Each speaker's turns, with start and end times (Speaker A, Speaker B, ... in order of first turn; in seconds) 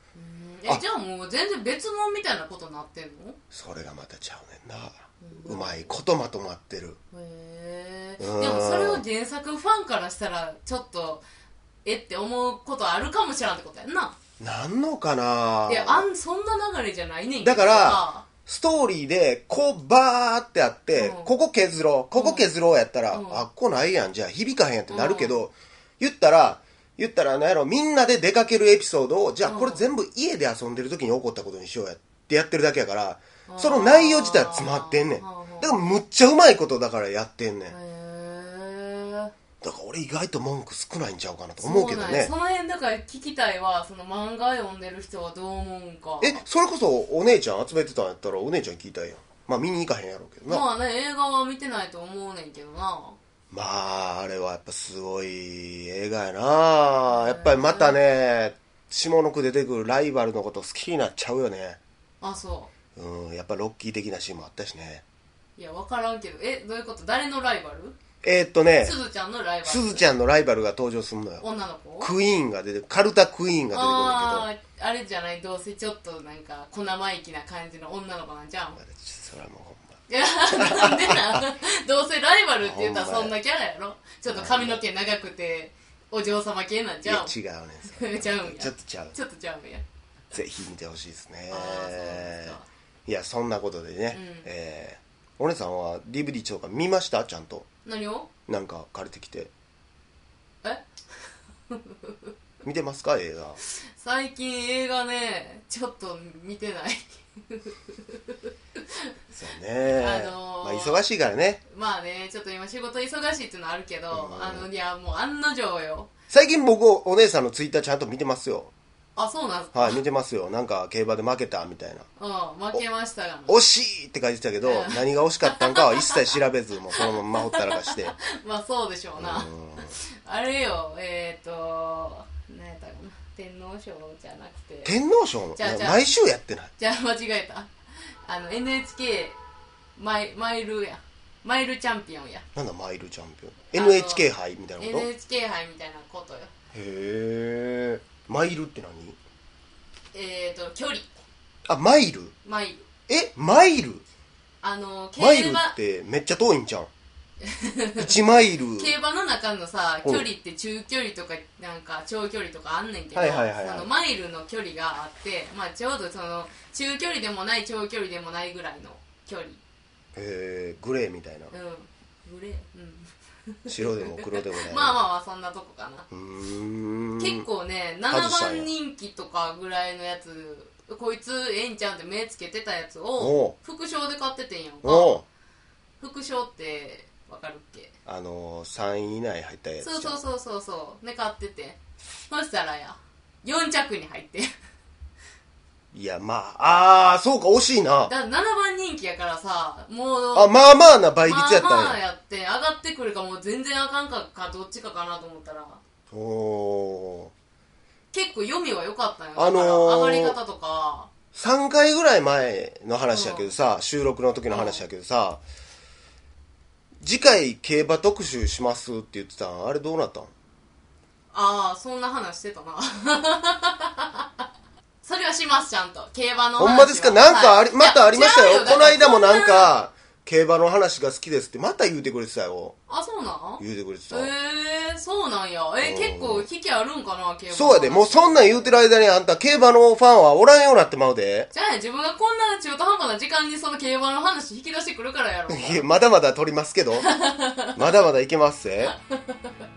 Speaker A: 0.1-3.4, 5.2-5.9, 7.1-11.2, 11.8-14.2, 15.7-18.3, 21.0-21.3, 22.1-22.5, 23.1-23.4, 24.9-25.4, 29.4-29.8, 33.5-35.8, 37.7-39.3, 41.6-46.4, 50.5-53.2, 57.1-58.0, 62.2-62.7, 65.6-68.0, 68.8-70.1, 71.4-72.1, 73.7-78.8, 80.1-87.3, 87.8-89.8, 91.5-92.7, 94.1-94.5, 97.8-98.3, 100.6-102.3, 103.6-109.0, 110.0-111.0, 111.7-116.1, 119.2-120.0, 122.2-123.6, 124.6-126.2, 127.0-134.9, 135.6-136.0, 136.8-137.7, 138.2-139.4, 139.9-142.4, 143.7-144.3, 144.8-146.5, 150.1-151.1, 152.4-152.9, 154.6-155.8, 157.4-158.1, 158.8-169.6, 171.5-176.1, 177.2-185.2, 186.0-187.9, 189.8-194.5, 198.1-200.6, 201.2-205.8, 208.1-211.1, 213.1-213.5, 214.5-214.8, 221.3-224.2, 225.0-229.7, 232.9-238.8, 241.5-245.9, 247.0-247.8, 248.8-249.5
Speaker B: 3.5-7.0, 8.2-9.0, 14.4-16.1, 17.4-37.8, 39.6-42.3, 46.2-50.6, 53.5-61.8, 63.0-65.0, 68.2-69.0, 69.6-71.4, 72.0-74.5, 78.8-81.4, 82.6-83.3, 84.3-84.8, 87.0-89.2, 90.3-97.7, 98.5-99.5, 102.6-103.6, 109.3-111.6, 114.1-114.7, 116.3-118.7, 119.7-122.1, 123.5-128.1, 129.2-129.9, 134.8-136.7, 142.5-145.1, 146.7-149.2, 151.7-152.3, 153.1-154.0, 155.2-156.9, 158.0-158.9, 163.1-163.9, 170.1-171.5, 173.7-175.0, 176.1-177.4, 178.1-178.7, 183.2-183.5, 184.8-185.2, 188.1-190.2, 195.9-198.1, 200.3-202.0, 206.1-207.3, 209.3-210.4, 211.3-215.4, 217.0-220.3, 226.6-232.8, 233.6-234.3, 235.8-236.5, 237.5-241.5, 245.5-247.1, 247.7-248.9